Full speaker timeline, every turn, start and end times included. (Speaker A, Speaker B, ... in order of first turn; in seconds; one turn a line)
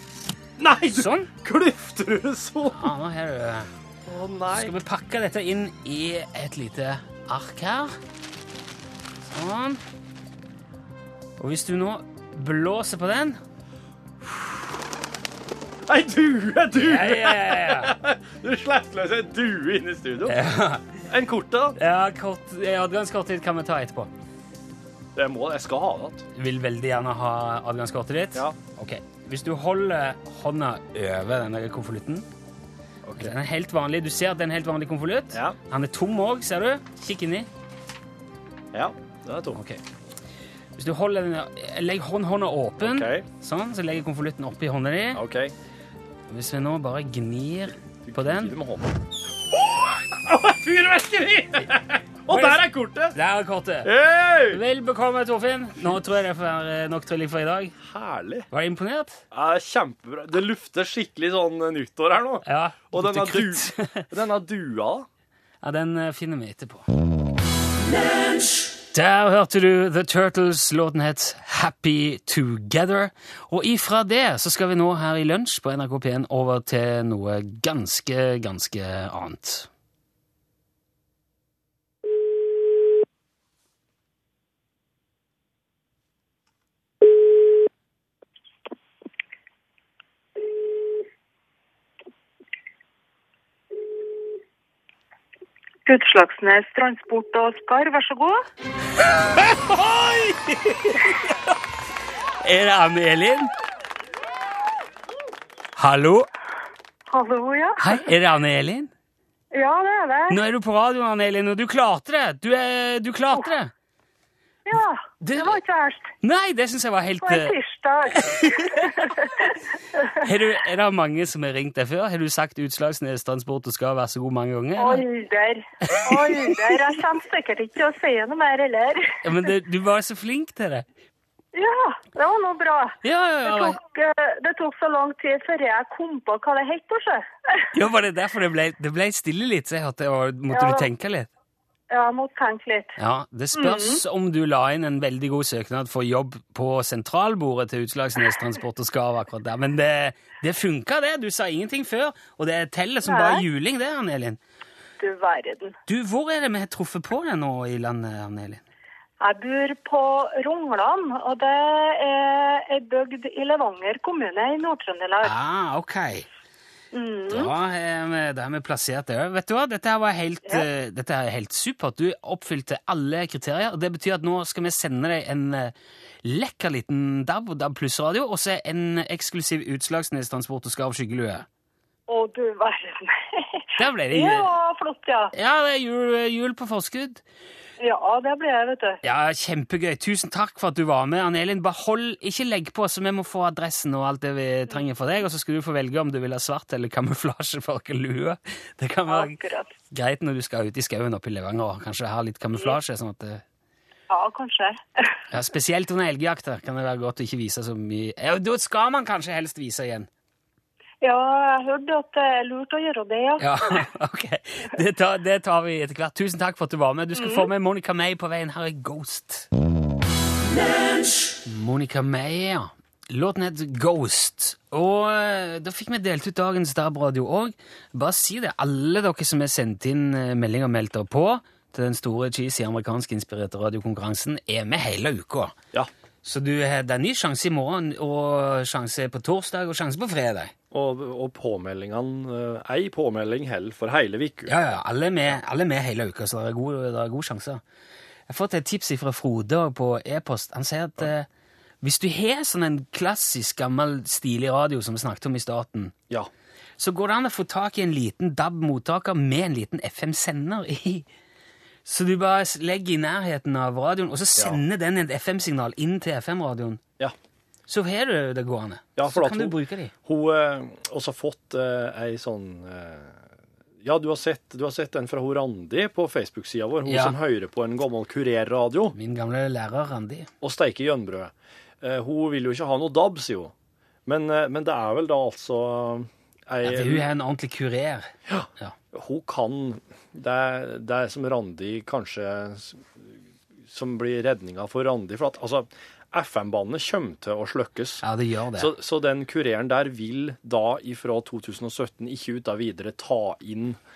Speaker A: 0.6-2.9
Speaker B: 0.9-1.3
Speaker B: 2.7-3.7
Speaker A: 4.0-4.7
Speaker B: 4.5-8.0
Speaker B: 9.2-9.8
Speaker B: 11.4-13.4
Speaker A: 15.9-20.4
Speaker B: 16.8-17.9
Speaker B: 20.2-20.9
Speaker A: 21.1-21.8
Speaker B: 21.8-24.1
Speaker A: 25.1-26.2
Speaker B: 26.3-32.2
Speaker A: 33.0-33.3
Speaker B: 33.2-37.5
Speaker A: 38.7-39.6
Speaker B: 39.5-39.8
Speaker B: 40.8-45.2
Speaker A: 42.8-43.2
Speaker A: 45.1-45.5
Speaker B: 46.3-48.5
Speaker A: 48.0-49.0
Speaker A: 49.6-53.1
Speaker B: 52.3-53.9
Speaker A: 53.8-54.6
Speaker B: 54.5-57.8
Speaker A: 57.8-58.5
Speaker B: 58.5-59.2
Speaker A: 59.3-65.1
Speaker B: 62.4-64.1
Speaker B: 65.6-66.9
Speaker B: 68.9-79.7
Speaker C: 95.8-98.4
Speaker B: 99.3-101.3
Speaker B: 102.4-103.5
Speaker B: 105.8-106.3
Speaker C: 107.1-108.0
Speaker B: 107.8-108.9
Speaker C: 109.5-110.4
Speaker B: 110.3-113.7
Speaker C: 114.7-116.1
Speaker B: 115.2-115.6
Speaker B: 116.2-117.5
Speaker C: 117.2-120.1
Speaker B: 118.2-119.2
Speaker B: 120.1-125.0
Speaker C: 124.8-129.2
Speaker B: 125.9-126.6
Speaker B: 129.2-130.8
Speaker C: 131.5-137.7
Speaker B: 133.0-133.8
Speaker B: 137.7-141.3
Speaker C: 140.5-140.9
Speaker C: 141.9-143.0
Speaker B: 143.0-154.4
Speaker C: 143.6-144.0
Speaker C: 153.0-153.4
Speaker C: 155.0-155.8
Speaker B: 155.9-158.6
Speaker C: 159.2-165.3
Speaker B: 165.2-166.2
Speaker C: 166.9-167.5
Speaker B: 167.3-181.4
Speaker C: 182.1-185.3
Speaker B: 183.8-184.5
Speaker B: 185.3-187.2
Speaker C: 187.8-189.0
Speaker B: 189.0-199.4
Speaker C: 199.1-199.7
Speaker B: 199.9-203.4
Speaker C: 204.1-205.0
Speaker B: 205.3-210.1
Speaker C: 211.0-213.8
Speaker B: 213.4-219.5
Speaker C: 217.2-217.4
Speaker B: 221.4-235.6
Speaker B: 236.2-240.5
Speaker A: 240.7-244.5
Speaker B: 244.4-247.6
Speaker B: 248.3-251.3
Speaker B: 251.8-255.9
Speaker B: 256.8-261.1
Speaker B: 261.8-266.8
Speaker B: 267.7-269.9
Speaker A: 268.9-273.2
Speaker A: 273.8-278.9
Speaker B: 276.8-277.1
Speaker B: 278.9-280.3
Speaker A: 280.4-283.5
Speaker A: 284.1-287.1
Speaker B: 286.6-288.7
Speaker A: 288.3-293.1
Speaker A: 293.7-298.0
Speaker B: 298.0-298.7
Speaker A: 298.6-303.8